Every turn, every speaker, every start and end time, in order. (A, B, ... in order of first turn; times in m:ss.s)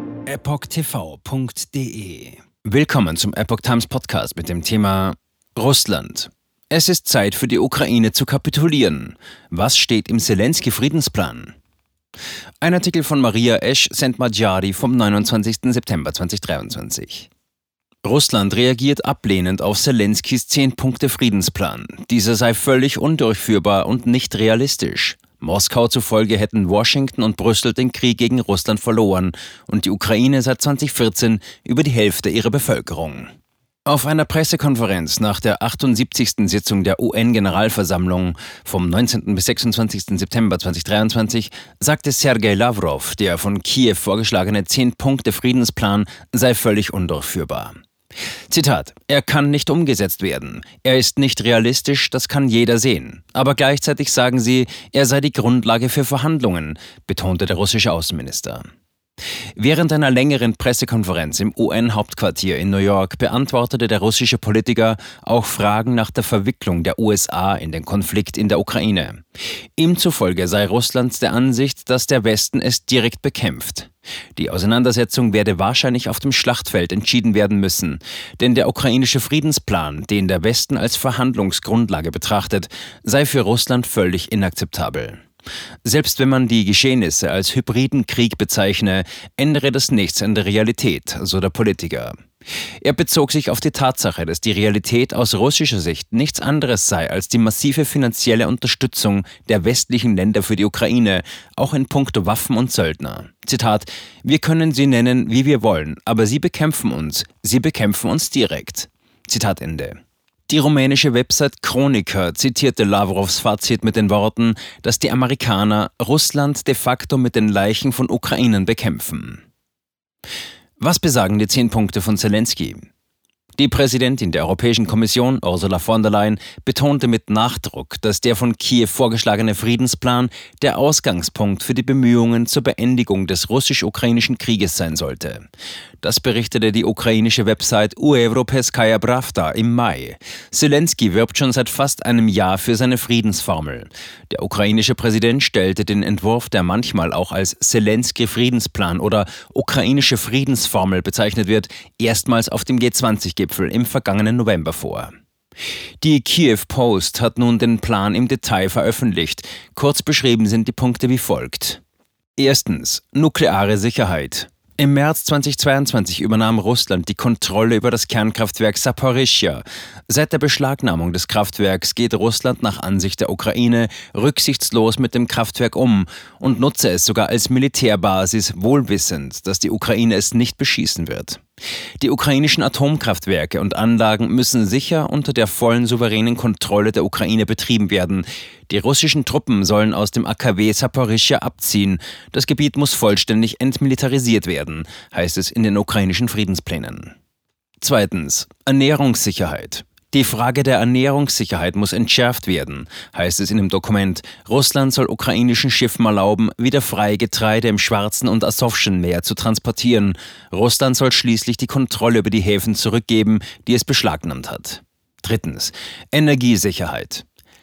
0:00.3-0:11.5 A
0:12.6-0:17.3 A
0:18.0-0:33.3 A
0:33.9-0:47.8 A
0:48.5-0:58.6 A
0:59.6-1:09.2 A
1:09.8-1:25.2 A
1:25.8-1:32.2 A
1:32.8-1:50.0 A
1:50.5-1:59.4 A
2:00.8-2:02.8 A
2:03.6-2:15.4 A
2:16.0-2:35.1 A
2:36.0-2:41.8 A
2:42.4-3:01.4 A
3:02.0-3:17.1 A
3:17.8-3:37.2 A